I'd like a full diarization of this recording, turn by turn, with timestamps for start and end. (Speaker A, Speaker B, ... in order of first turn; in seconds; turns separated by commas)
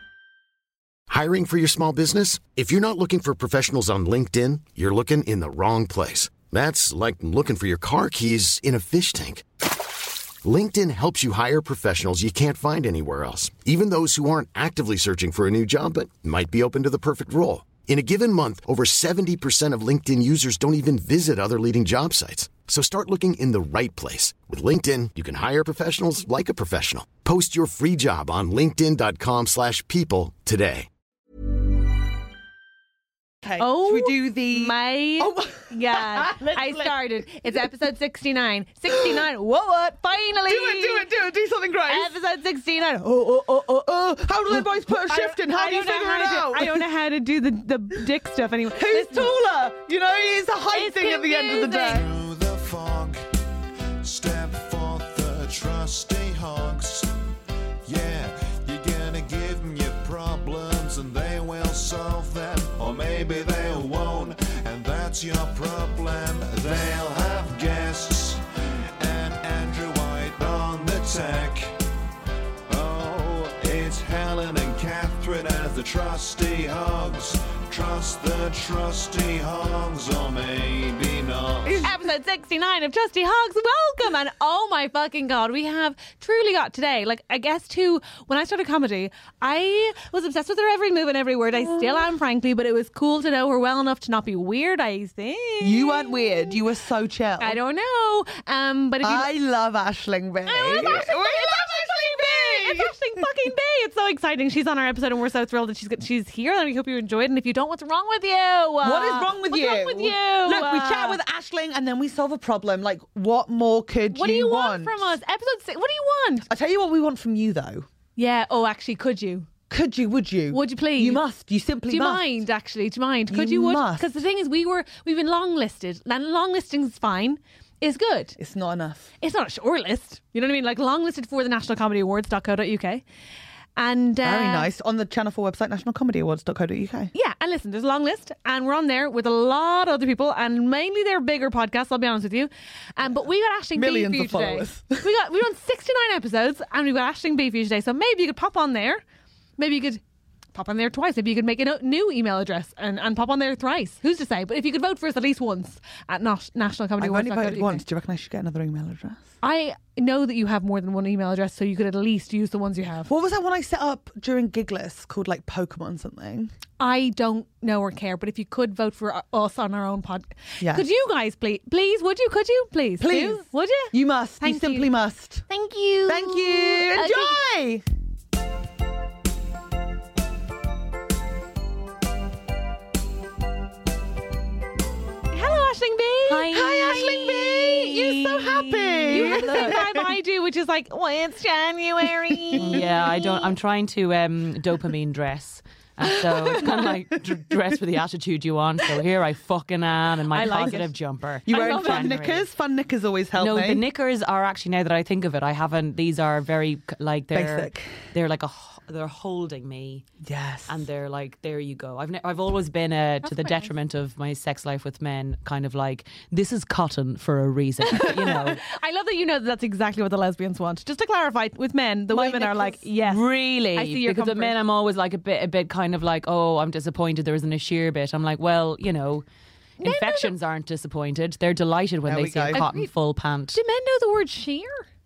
Speaker A: 1.1-9.5, Speaker A: 10.4-30.9, Speaker B: 33.4-37.0, Speaker C: 33.6-41.1, Speaker B: 38.9-39.3, Speaker B: 40.5-42.1, Speaker C: 41.9-43.9, Speaker B: 43.8-46.9, Speaker C: 44.5-49.3, Speaker B: 48.7-52.0, Speaker C: 50.7-52.0, Speaker D: 52.0-53.2, Speaker D: 54.0-57.1, Speaker D: 57.8-68.4, Speaker D: 69.0-71.7, Speaker D: 72.7-81.9, Speaker B: 81.7-81.9, Speaker C: 81.8-96.6, Speaker B: 95.6-97.6, Speaker C: 97.4-99.3, Speaker B: 99.0-102.9, Speaker C: 100.5-111.2, Speaker B: 108.8-115.1, Speaker C: 114.1-116.5, Speaker B: 116.5-117.9, Speaker C: 118.2-119.5, Speaker B: 119.7-122.4, Speaker C: 120.5-121.2, Speaker C: 121.9-128.4, Speaker B: 123.3-124.1, Speaker B: 128.4-129.1, Speaker C: 129.2-133.0, Speaker C: 133.8-134.7, Speaker B: 134.2-137.1, Speaker C: 137.1-149.0, Speaker B: 143.7-145.1, Speaker C: 149.6-150.0, Speaker C: 150.5-157.8, Speaker B: 157.0-159.2, Speaker C: 159.4-163.1, Speaker B: 163.1-166.5, Speaker C: 166.8-174.9, Speaker B: 170.6-170.8, Speaker B: 173.0-175.4, Speaker C: 175.5-177.4, Speaker B: 176.1-177.8, Speaker C: 185.3-186.7, Speaker E: 186.3-189.8, Speaker B: 186.5-190.1, Speaker C: 189.1-193.5, Speaker B: 192.3-192.8, Speaker E: 192.6-202.5, Speaker C: 200.3-200.8, Speaker B: 200.5-200.8, Speaker B: 201.5-203.8, Speaker C: 201.5-202.3, Speaker E: 203.4-210.1, Speaker B: 207.3-207.9, Speaker B: 210.2-210.8, Speaker E: 210.7-218.6, Speaker C: 213.3-213.7, Speaker C: 218.0-224.6, Speaker B: 222.1-222.7, Speaker E: 222.2-229.2, Speaker C: 229.8-230.3, Speaker E: 229.8-233.6, Speaker B: 232.1-232.6, Speaker C: 232.5-232.9, Speaker C: 233.5-234.8